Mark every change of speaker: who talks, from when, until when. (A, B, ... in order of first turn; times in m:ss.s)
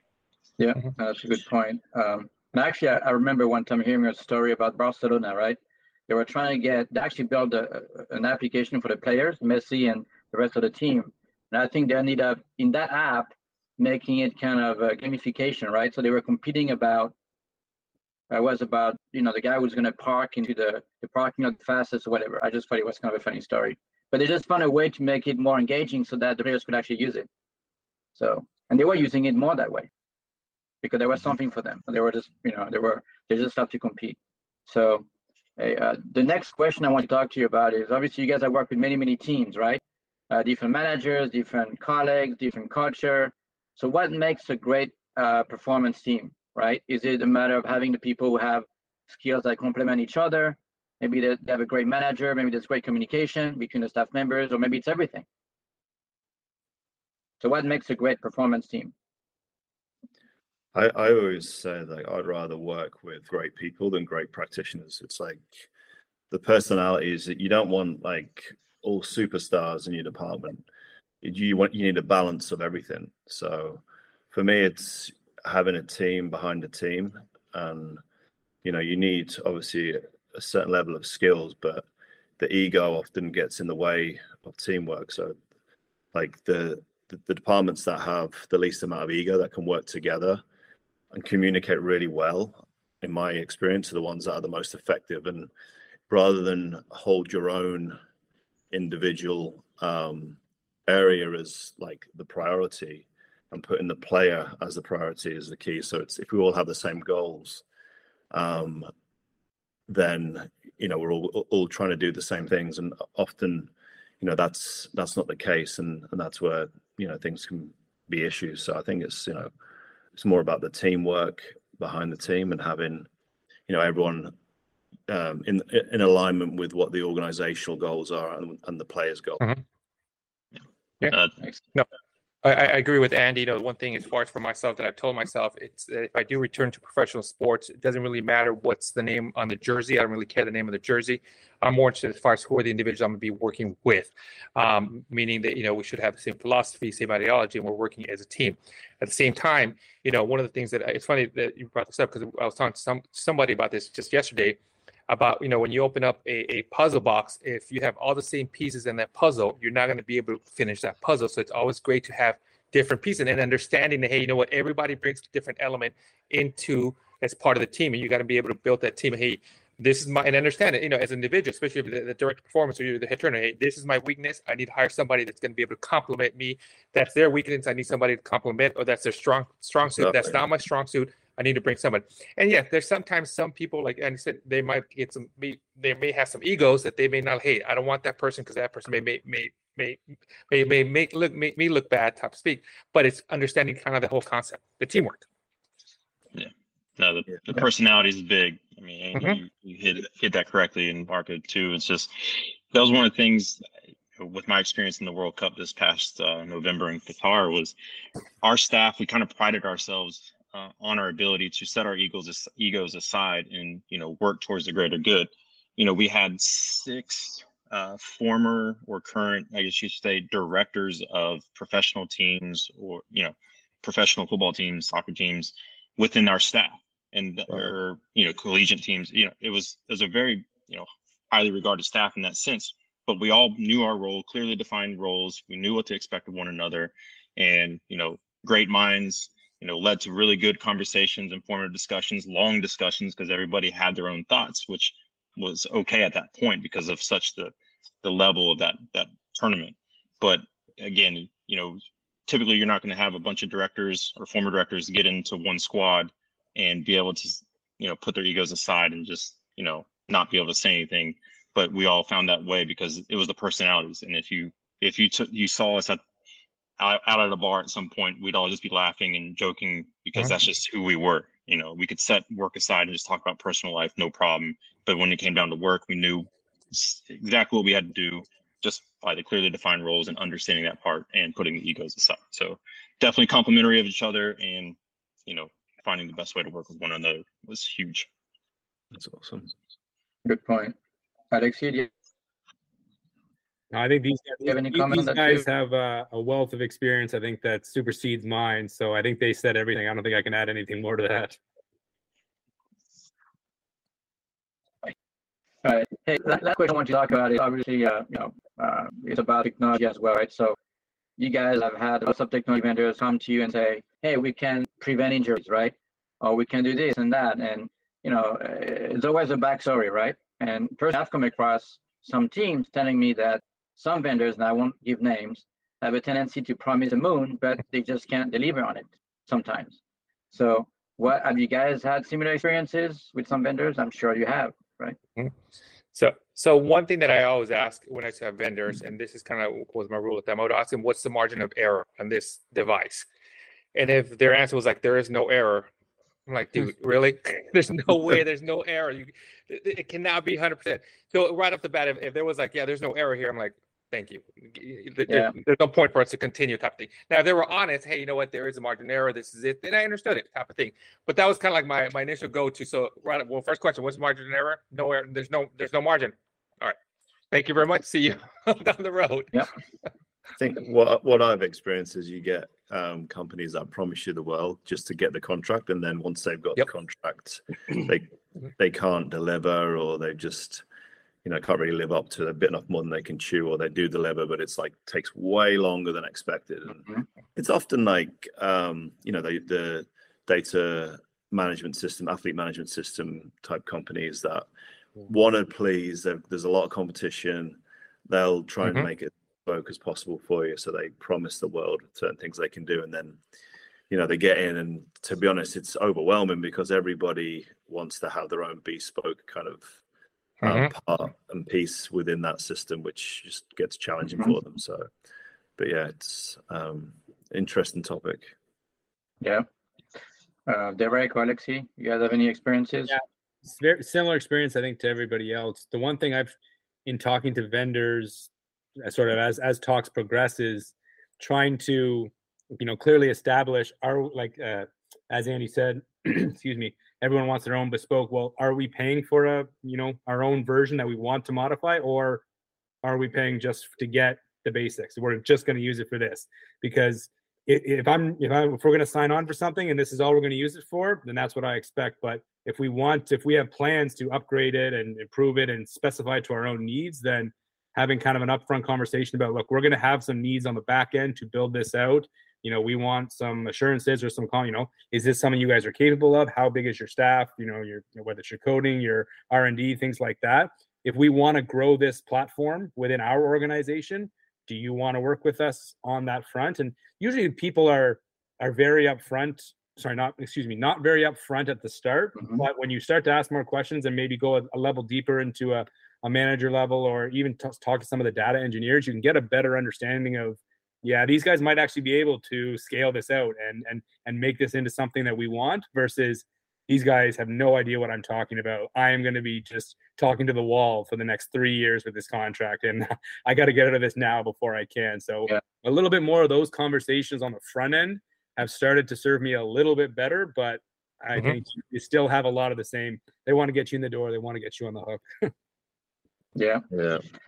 0:00.6-0:17.1 A
0:18.3-0:27.3 A
0:28.2-0:29.9 A
0:30.8-0:35.0 A
0:35.6-0:55.2 A
0:57.4-0:58.9 A
1:00.7-1:05.7 B
1:06.3-1:10.6 B
1:11.2-1:18.0 B
1:18.6-1:21.9 B
1:22.4-1:25.4 B
1:26.1-1:30.4 B
1:31.1-1:35.5 B
1:36.1-1:38.0 B
1:38.7-1:47.6 B
1:48.3-1:48.9 B
1:49.9-1:53.7 B
1:54.2-1:59.5 B
2:00.2-2:03.1 B
2:03.7-2:04.3 B
2:05.1-2:09.4 B
2:11.0-2:11.9 C
2:12.4-2:34.6 C
2:35.1-3:15.3 C
3:00.0-3:00.3 B
3:16.3-3:23.6 D
3:19.1-3:19.4 C
3:24.2-3:27.7 D
3:28.4-4:26.0 D
4:26.8-4:44.8 D
4:45.3-4:48.1 D
4:48.9-4:49.5 B
4:50.2-4:50.8 A
4:51.3-4:51.9 A
4:53.7-5:01.4 E
4:54.4-4:55.4 A
5:05.6-5:10.6 A
5:11.2-5:29.8 A
5:30.3-5:35.0 A
5:35.9-5:43.1 C
5:43.7-5:45.7 C
5:46.3-6:06.8 C
6:07.3-6:09.5 C
6:10.4-6:20.6 B
6:21.2-6:34.5 B
6:35.0-6:43.2 B
6:43.9-6:49.8 B
6:50.4-6:50.7 C
6:50.4-6:54.9 B
6:55.6-6:58.3 B
7:00.5-7:03.0 A
7:02.9-7:08.3 E
7:08.8-7:22.2 E
7:22.8-8:35.3 E
8:36.4-8:36.6 A
8:36.7-8:37.0 B